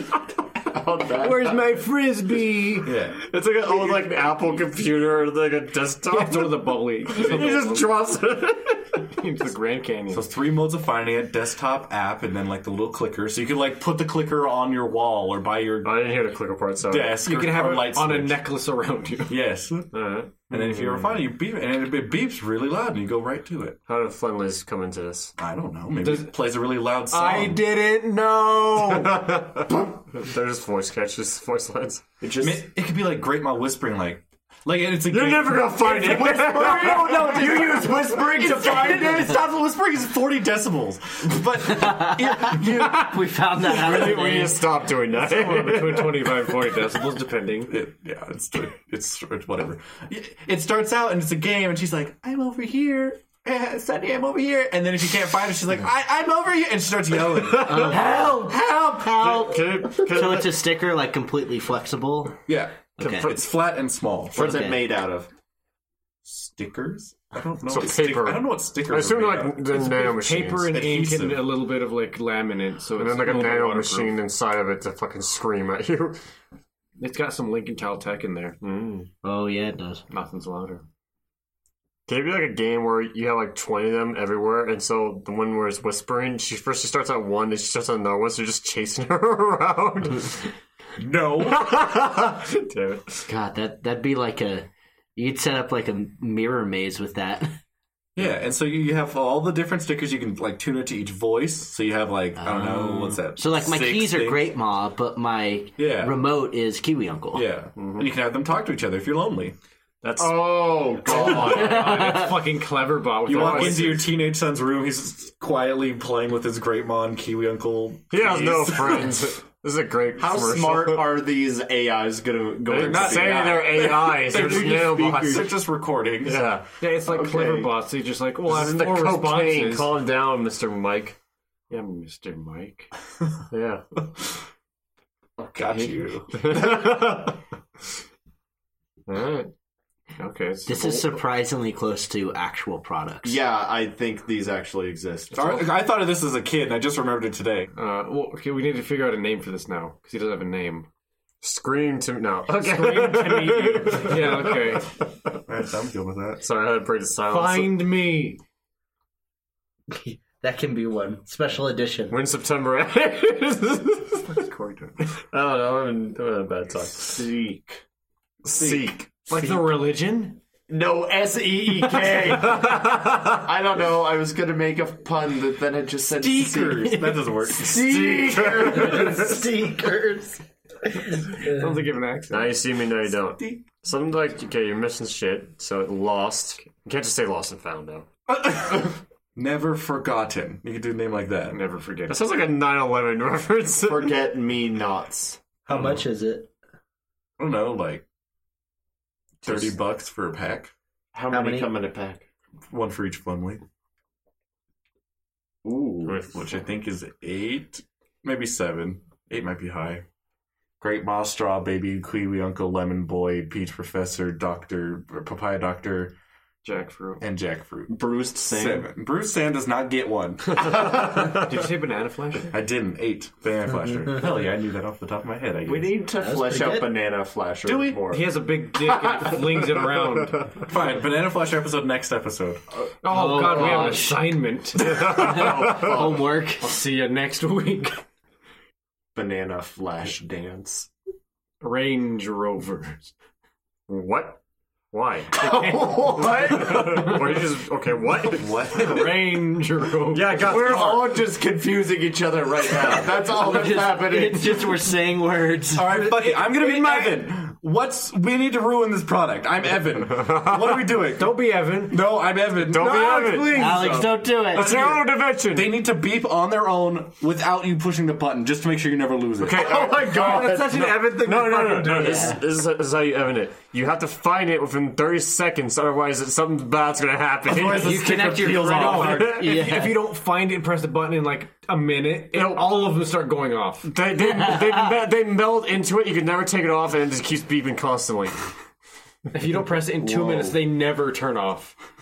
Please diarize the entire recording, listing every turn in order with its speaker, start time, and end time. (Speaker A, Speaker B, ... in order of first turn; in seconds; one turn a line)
Speaker A: 0.7-1.6
Speaker B: 1.1-3.0
Speaker C: 2.8-3.2
Speaker D: 3.2-9.1
Speaker B: 6.1-8.0
Speaker B: 9.1-10.3
Speaker C: 10.1-15.9
Speaker D: 15.8-17.1
Speaker C: 16.9-18.5
Speaker B: 17.2-19.4
Speaker C: 19.3-19.8
Speaker D: 19.9-20.7
Speaker C: 20.5-23.8
Speaker D: 23.9-25.3
Speaker C: 25.4-27.6
Speaker B: 26.0-26.3
Speaker B: 27.1-29.3
Speaker D: 28.8-32.0
Speaker A: 32.2-32.6
Speaker C: 32.4-36.5
Speaker D: 35.1-37.3
Speaker A: 35.8-39.2
Speaker B: 35.9-39.1
Speaker C: 37.1-37.6
Speaker C: 38.3-43.2
Speaker E: 41.6-44.6
Speaker D: 43.7-46.5
Speaker B: 45.1-47.7
Speaker C: 47.7-58.1
Speaker D: 57.6-58.0
Speaker E: 57.6-62.4
Speaker D: 59.0-60.5
Speaker C: 62.5-64.6
Speaker E: 63.0-63.3
Speaker D: 63.0-63.4
Speaker A: 64.3-65.3
Speaker E: 64.3-64.9
Speaker C: 66.2-69.8
Speaker D: 67.7-70.7
Speaker B: 69.9-74.2
Speaker C: 70.7-71.5
Speaker D: 73.0-76.2
Speaker B: 77.0-78.6
Speaker D: 78.6-79.1
Speaker E: 79.2-80.0
Speaker B: 80.1-80.8
Speaker D: 82.1-90.5
Speaker C: 91.0-91.7
Speaker D: 91.4-93.2
Speaker E: 93.2-97.5
Speaker C: 98.2-104.5
Speaker E: 102.4-107.5
Speaker C: 105.8-106.2
Speaker C: 107.3-109.5
Speaker D: 107.8-108.1
Speaker D: 110.0-111.2
Speaker A: 110.2-112.1
Speaker B: 111.1-114.1
Speaker E: 111.4-112.4
Speaker C: 113.2-119.2
Speaker D: 113.3-113.8
Speaker D: 118.1-121.2
Speaker A: 120.2-123.6
Speaker D: 122.7-125.6
Speaker C: 122.8-126.5
Speaker D: 126.2-126.7
Speaker B: 126.8-129.9
Speaker A: 127.1-127.7
Speaker D: 128.4-131.2
Speaker B: 131.7-132.9
Speaker D: 133.5-133.8
Speaker C: 134.0-134.4
Speaker C: 135.4-136.8
Speaker D: 136.3-137.3
Speaker D: 139.1-139.5
Speaker B: 140.2-141.2
Speaker E: 140.7-143.4
Speaker A: 143.2-145.7
Speaker C: 145.3-147.7
Speaker B: 147.7-150.9
Speaker D: 151.4-155.4
Speaker B: 152.5-154.9
Speaker C: 155.4-156.4
Speaker D: 156.4-157.8
Speaker B: 157.3-158.4
Speaker E: 159.9-162.2
Speaker D: 162.1-164.4
Speaker A: 164.3-164.9
Speaker D: 165.1-167.2
Speaker A: 167.0-167.8
Speaker D: 168.4-169.6
Speaker C: 168.5-168.9
Speaker B: 169.3-170.4
Speaker A: 170.7-179.4
Speaker D: 172.8-173.1
Speaker C: 176.2-177.9
Speaker D: 177.7-179.2
Speaker E: 178.5-180.4
Speaker B: 181.4-182.6
Speaker D: 182.3-188.1
Speaker C: 183.2-183.7
Speaker C: 188.3-191.6
Speaker B: 191.5-192.2
Speaker D: 192.1-194.1
Speaker A: 193.8-195.4
Speaker E: 195.7-196.5
Speaker C: 195.7-196.1
Speaker C: 197.4-198.0
Speaker A: 199.4-199.7
Speaker C: 199.4-200.7
Speaker A: 201.1-202.2
Speaker E: 201.3-201.7
Speaker C: 202.7-203.6
Speaker A: 205.6-206.3
Speaker C: 206.2-210.0
Speaker C: 210.8-216.1
Speaker B: 216.6-217.2
Speaker C: 217.2-220.7
Speaker A: 217.9-218.9
Speaker B: 220.7-222.5
Speaker C: 222.5-225.9
Speaker A: 225.6-228.3
Speaker E: 226.1-226.9
Speaker C: 227.6-228.0
Speaker B: 228.0-230.5
Speaker C: 230.6-232.6
Speaker B: 233.0-238.0
Speaker E: 233.1-234.2
Speaker E: 235.1-236.8
Speaker A: 235.2-236.2
Speaker A: 239.1-240.9
Speaker B: 241.6-243.1
Speaker D: 243.9-244.4
Speaker D: 244.9-245.4
Speaker B: 245.4-247.4
Speaker A: 245.4-246.7
Speaker D: 246.3-249.0
Speaker C: 248.3-249.2
Speaker B: 248.6-250.9
Speaker D: 250.1-251.2
Speaker A: 250.4-254.7
Speaker B: 253.3-253.9
Speaker E: 253.4-256.0
Speaker C: 255.7-269.7
Speaker B: 256.1-257.1
Speaker B: 261.1-262.1
Speaker D: 262.6-265.8
Speaker B: 262.7-264.2
Speaker E: 263.5-264.7
Speaker B: 269.5-272.3
Speaker A: 269.5-272.4
Speaker D: 269.6-278.2
Speaker E: 272.0-272.4
Speaker A: 277.5-279.3
Speaker C: 277.7-279.1
Speaker E: 277.7-280.1
Speaker B: 277.8-283.9
Speaker D: 278.9-279.4
Speaker D: 282.3-282.6
Speaker D: 283.8-288.5
Speaker B: 289.3-291.8
Speaker A: 290.0-290.6